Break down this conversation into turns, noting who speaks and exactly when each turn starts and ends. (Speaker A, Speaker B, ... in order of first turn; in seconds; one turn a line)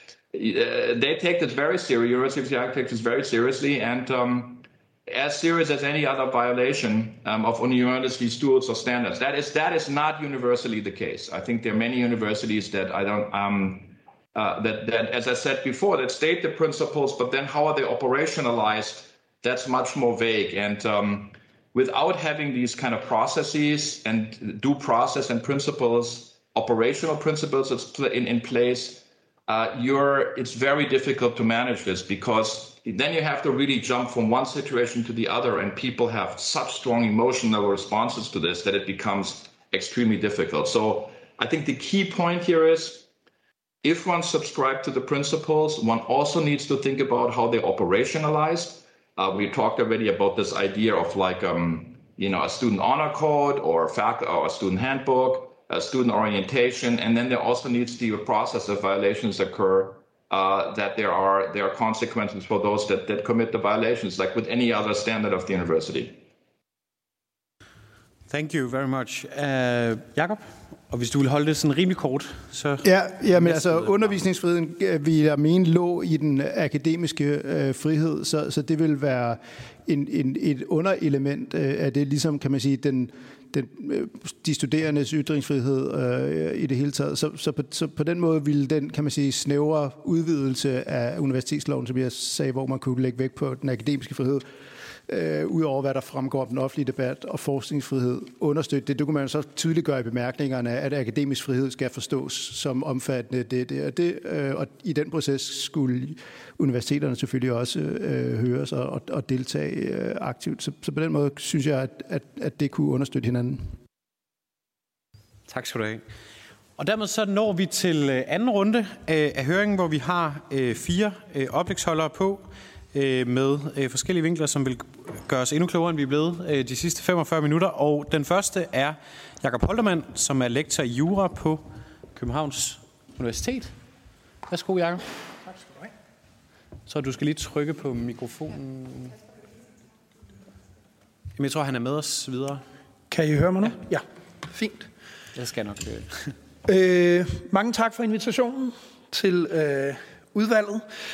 Speaker A: 0.3-43.1
Speaker A: 43.8-66.2
Speaker B: 68.3-74.2
Speaker C: 72.8-94.5
Speaker C: 95.1-113.7
Speaker B: 115.5-116.0
Speaker B: 116.8-131.6
Speaker B: 132.1-133.8
Speaker B: 134.5-135.0
Speaker B: 136.9-139.2
Speaker B: 141.4-142.6
Speaker D: 143.1-144.9
Speaker B: 145.3-146.3
Speaker D: 146.7-150.9